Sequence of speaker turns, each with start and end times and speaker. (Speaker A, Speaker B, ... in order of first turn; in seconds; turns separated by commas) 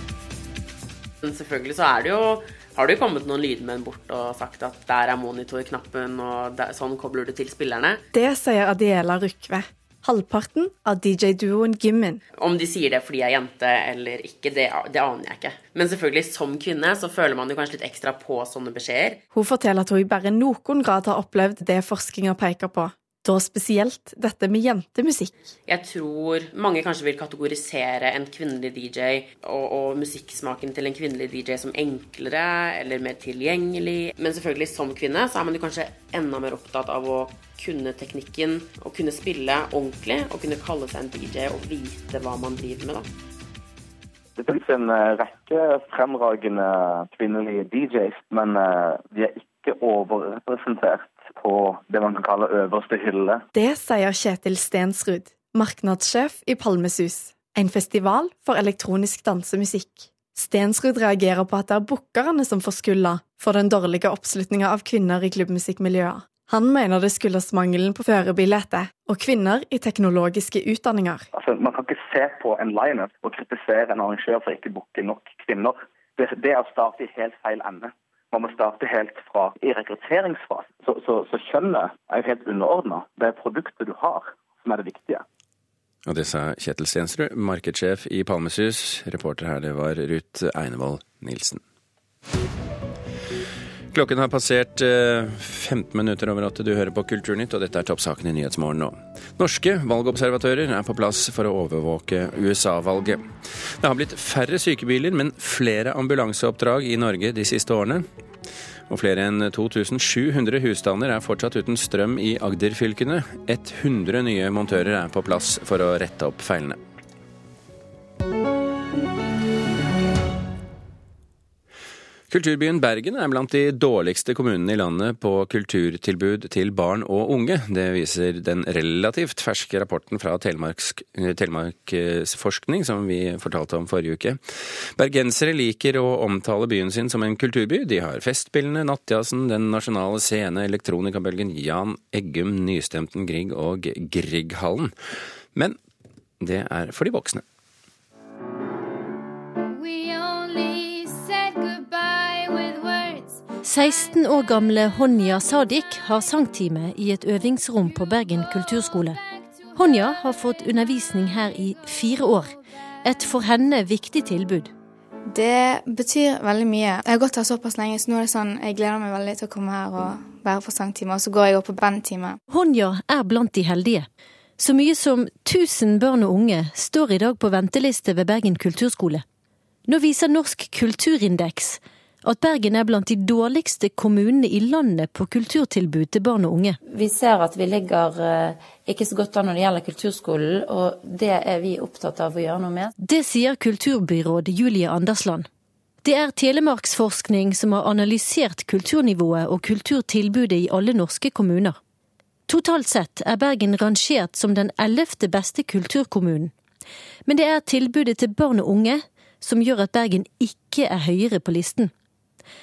Speaker A: 1.2-8.0, Speaker B: 8.1-12.2, Speaker A: 12.4-19.2, Speaker B: 19.3-25.3, Speaker A: 25.7-43.1, Speaker C: 44.4-53.4, Speaker B: 53.5-71.3, Speaker C: 71.3-85.2, Speaker D: 86.1-91.6, Speaker D: 93.9-103.3, Speaker D: 103.8-108.1, Speaker D: 108.9-116.8, Speaker D: 122.3-134.4, Speaker D: 134.9-144.9, Speaker D: 146.4-147.4, Speaker E: 153.6-159.2, Speaker E: 159.8-164.7, Speaker F: 165.3-172.3, Speaker E: 172.5-174.1, Speaker E: 174.6-179.2, Speaker E: 179.9-186.8, Speaker G: 186.9-192.9, Speaker E: 193.0-195.5, Speaker E: 196.0-201.8, Speaker E: 202.5-206.5, Speaker E: 207.3-211.9